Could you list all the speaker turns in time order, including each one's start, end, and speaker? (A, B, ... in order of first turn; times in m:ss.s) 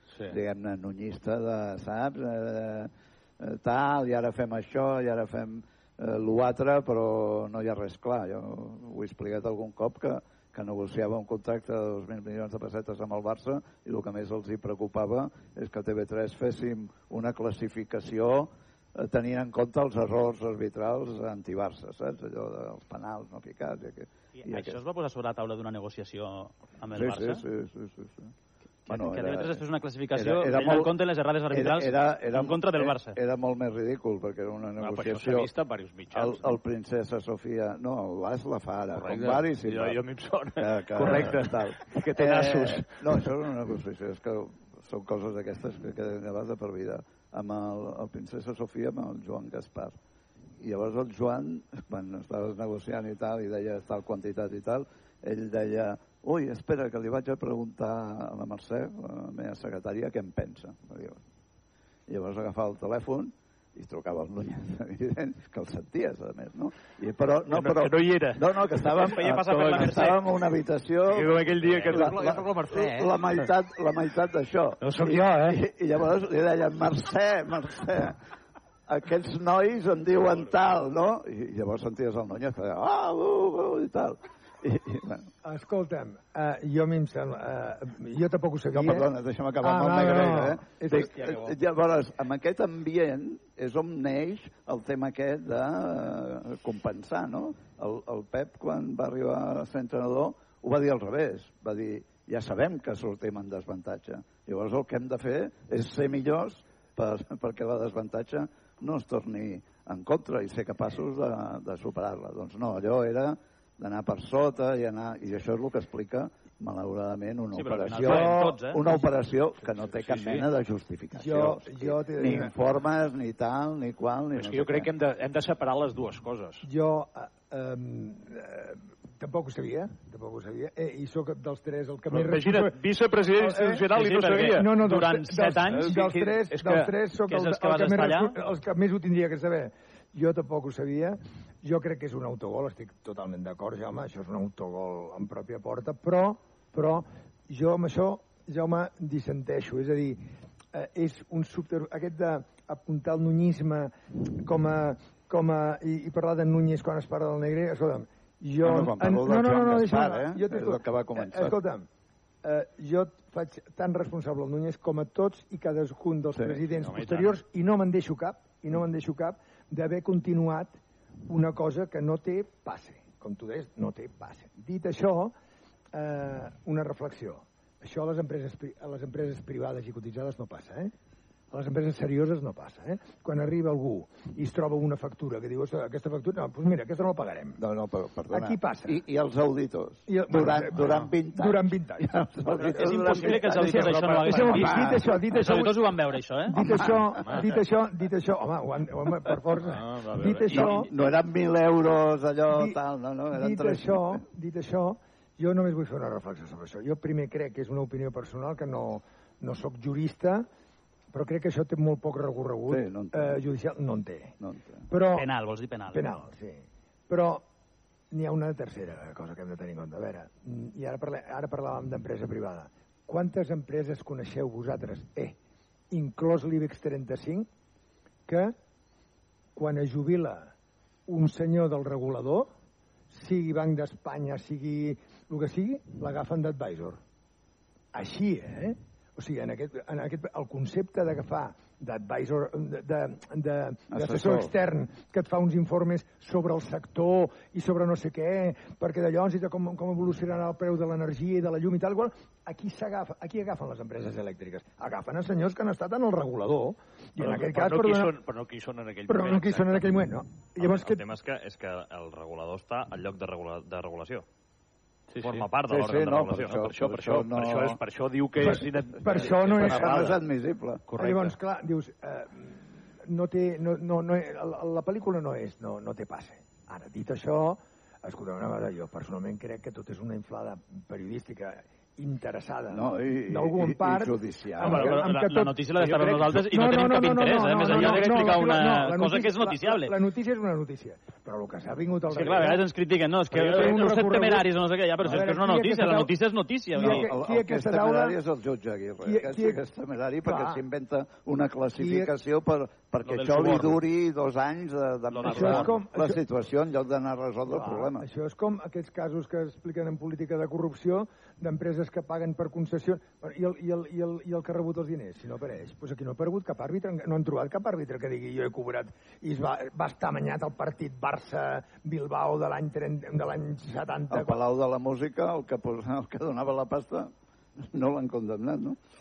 0:00.3-0:24.8 A
0:24.4-0:27.4 B
0:26.9-0:28.3 A
0:28.9-0:33.2 B
0:28.9-0:31.0 A
0:31.5-0:35.5 A
0:34.8-0:36.6 C
0:36.1-0:40.0 A
0:38.9-0:43.2 C
0:40.6-0:50.0 A
0:50.6-1:01.2 A
1:02.1-1:18.2 A
1:07.5-1:08.4 C
1:09.0-1:10.2 B
1:09.4-1:10.2 C
1:11.1-1:12.9 C
1:11.7-1:13.0 B
1:14.8-1:15.6 C
1:18.9-1:25.3 A
1:25.4-1:29.1 D
1:28.7-2:04.9 A
1:29.6-1:31.1 D
1:31.0-1:31.5 B
1:57.5-1:59.0 B
1:58.0-1:58.6 D
1:59.8-2:00.5 C
2:01.2-2:02.5 D
2:04.4-2:06.7 C
2:06.6-2:12.8 D
2:12.1-2:15.0 C
2:13.3-2:41.9 D
2:13.9-2:16.1 B
2:15.6-2:16.9 C
2:17.3-2:18.4 B
2:38.6-2:41.6 A
2:42.4-2:55.3 D
2:46.4-2:46.6 A
2:46.7-2:47.4 C
2:55.9-3:00.9 D
3:01.5-3:07.6 D
3:07.6-3:15.1 A
3:08.3-3:09.0 D
3:10.1-3:12.2 D
3:12.6-3:16.6 B
3:12.9-3:15.9 D
3:13.8-3:14.8 C
3:16.5-3:20.9 D
3:16.8-3:17.2 A
3:19.6-3:20.9 C
3:20.5-3:24.2 A
3:22.5-3:22.8 D
3:23.3-3:30.5 D
3:31.1-3:34.4 D
3:32.7-3:33.5 A
3:34.4-3:34.9 A
3:34.9-3:35.3 D
3:35.1-3:36.1 B
3:35.9-3:37.5 D
3:38.1-3:45.4 D
3:45.9-3:47.5 D
3:48.3-3:48.6 D
3:49.6-3:50.5 D
3:51.1-3:52.5 D
3:53.1-3:57.0 D
3:57.9-4:18.2 D
4:03.9-4:04.5 A
4:17.2-4:19.9 C
4:19.1-4:21.0 D
4:20.6-4:24.3 E
4:25.1-4:25.5 C
4:25.2-4:26.7 E
4:25.7-4:27.8 A
4:26.4-4:30.2 C
4:28.4-4:30.1 D
4:28.5-4:30.9 A
4:30.9-4:31.4 C
4:30.9-4:52.6 D
4:42.7-4:45.0 A
4:44.6-4:50.0 B
4:45.9-4:46.4 C
4:47.7-4:48.3 C
4:52.1-4:57.1 B
4:53.3-4:54.5 D
4:55.0-4:56.1 D
4:56.7-4:58.2 D
4:56.8-5:08.1 A
4:59.0-4:59.6 D
5:00.2-5:00.6 D
5:01.8-5:02.1 D
5:03.2-5:03.7 B
5:05.2-5:05.6 B
5:05.2-5:06.2 D
5:05.3-5:05.7 C
5:07.5-5:24.4 D
5:24.1-5:28.8 A